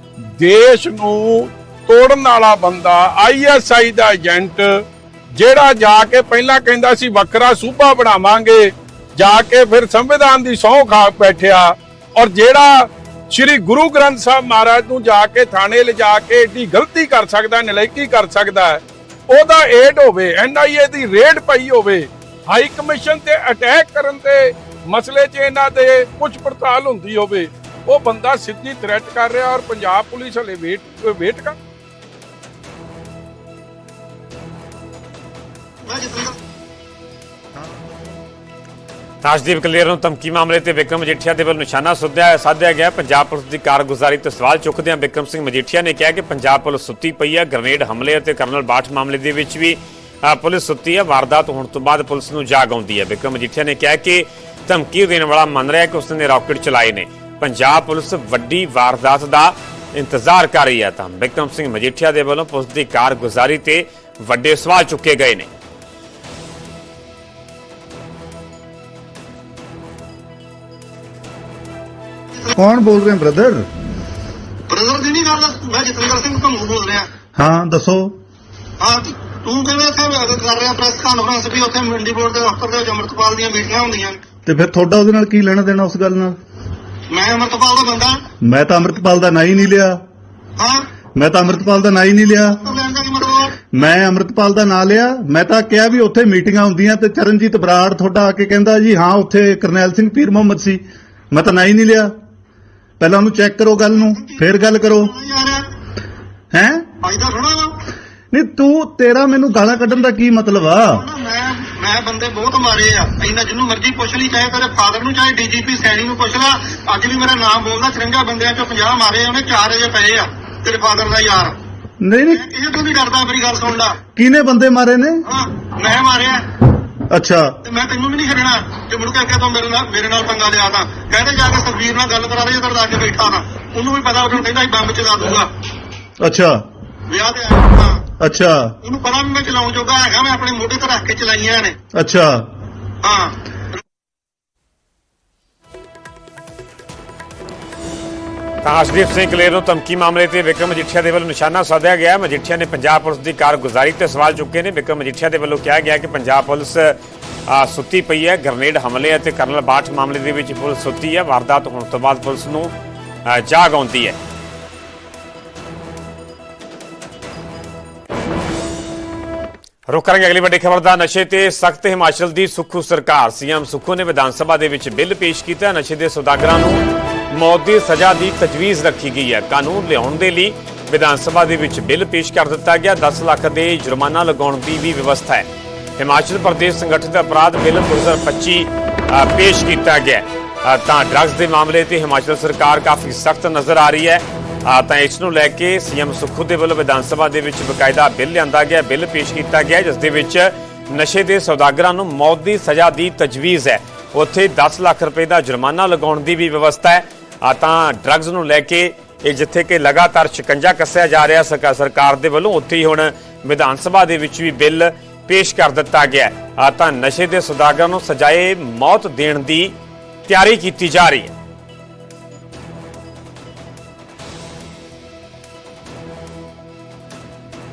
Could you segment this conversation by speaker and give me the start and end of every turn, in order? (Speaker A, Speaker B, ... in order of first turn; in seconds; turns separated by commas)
Speaker A: 0.4-31.6, Speaker B: 35.9-36.4, Speaker C: 39.2-65.5, Speaker D: 72.5-73.7, Speaker B: 74.7-77.1, Speaker D: 77.4-78.1, Speaker B: 78.8-84.2, Speaker D: 84.5-86.4, Speaker B: 87.1-88.2, Speaker D: 88.5-90.0, Speaker B: 90.6-90.8, Speaker D: 91.2-92.7, Speaker B: 92.6-93.6, Speaker D: 93.7-102.1, Speaker D: 103.0-105.1, Speaker B: 105.0-105.7, Speaker D: 106.5-106.8, Speaker B: 107.0-107.8, Speaker D: 108.3-111.0, Speaker B: 110.9-121.6, Speaker D: 122.0-122.4, Speaker B: 122.3-124.0, Speaker D: 124.2-125.2, Speaker B: 125.2-126.4, Speaker D: 127.1-127.5, Speaker B: 127.7-135.5, Speaker D: 136.2-136.6, Speaker B: 137.1-138.1, Speaker D: 138.2-138.7, Speaker B: 138.8-141.8, Speaker D: 142.0-142.4, Speaker B: 143.0-143.4, Speaker C: 148.6-162.7, Speaker C: 163.3-164.2, Speaker C: 169.9-185.5, Speaker C: 186.0-219.7, Speaker C: 220.3-221.3